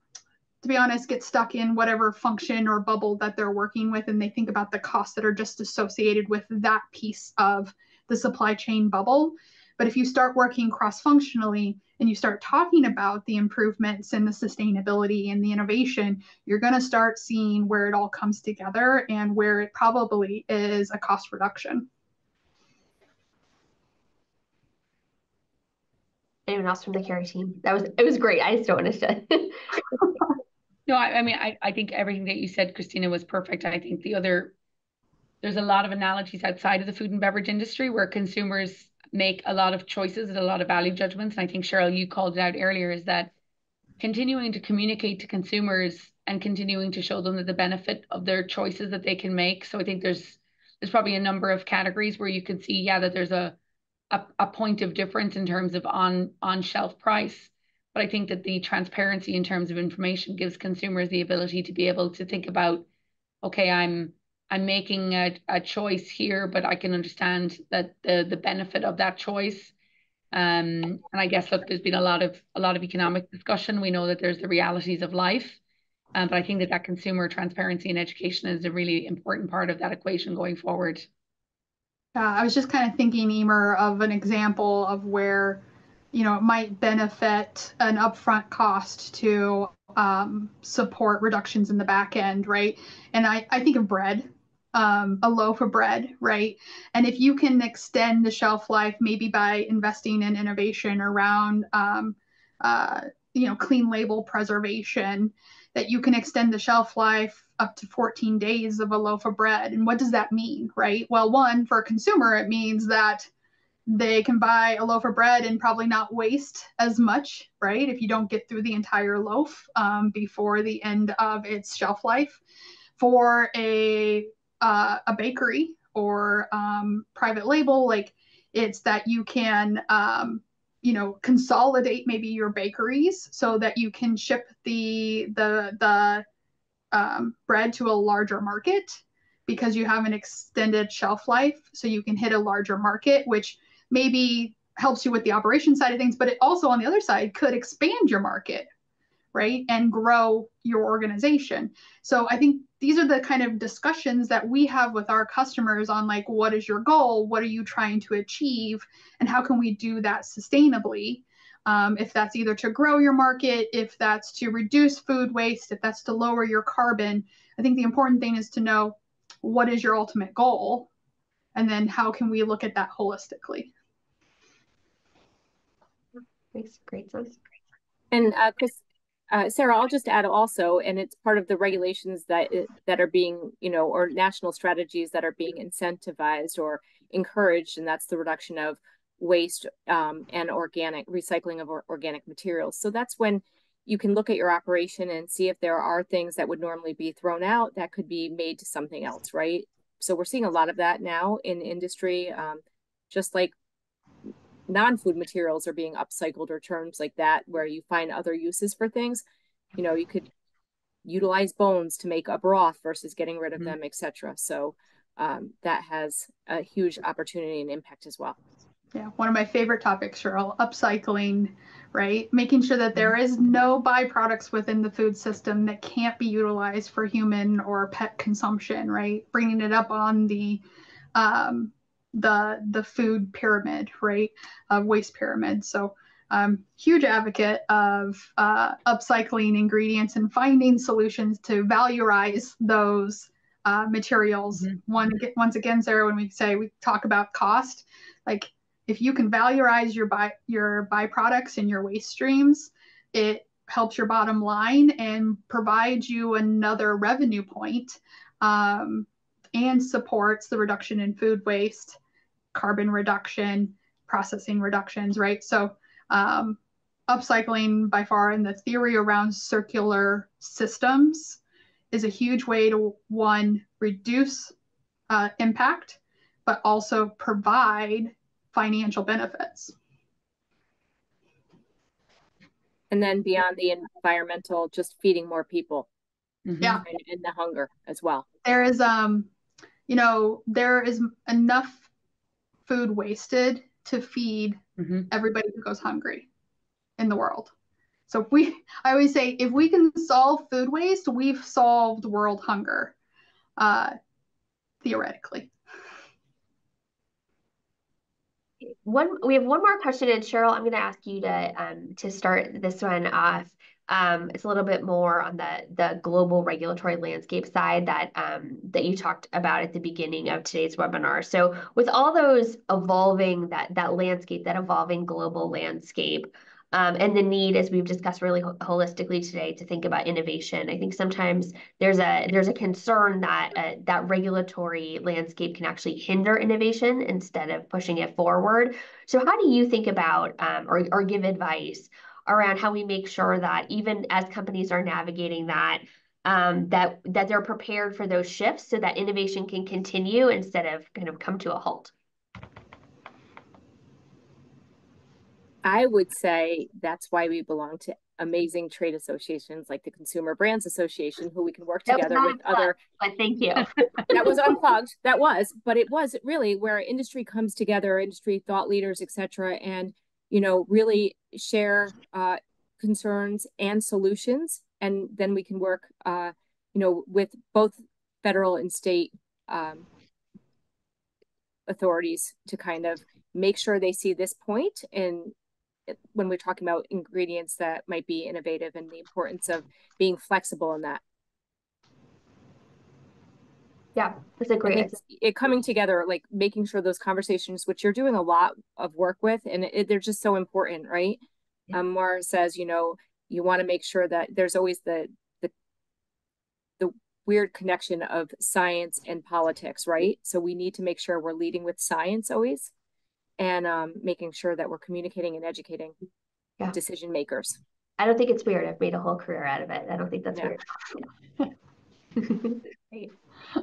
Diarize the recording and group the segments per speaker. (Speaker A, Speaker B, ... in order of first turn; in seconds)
Speaker A: 0.6-21.9, 82.2-85.6, 86.1-113.3, 113.9-122.4, 123.0-136.2, 136.9-148.7, 149.3-170.9, 171.6-173.7, 218.9-230.6, 231.2-262.0, 262.5-271.4, 271.9-274.5, 275.1-279.8, 288.4-289.3, 289.9-291.9, 292.7-294.6, 295.1-296.3, 297.0-297.5, 298.1-302.9, 303.6-303.9, 304.8-305.5
Speaker B: 26.5-30.1, 176.5-177.4, 308.7-351.9, 361.9-364.2, 393.9-395.0, 418.0-421.1, 422.2-423.1
Speaker C: 30.9-34.5, 35.4-43.3, 44.0-53.6, 54.1-62.9, 63.4-69.7, 70.3-75.6, 76.2-81.1, 286.5-286.8, 294.8-295.1
Speaker D: 178.1-203.5, 204.7-209.2, 209.8-210.3, 211.1-218.4, 282.9-285.9, 286.9-288.2, 355.6-362.8, 364.1-379.9, 381.7-385.3, 385.9-391.0, 394.6-405.5, 406.8-412.7, 413.4-415.9, 416.7-417.6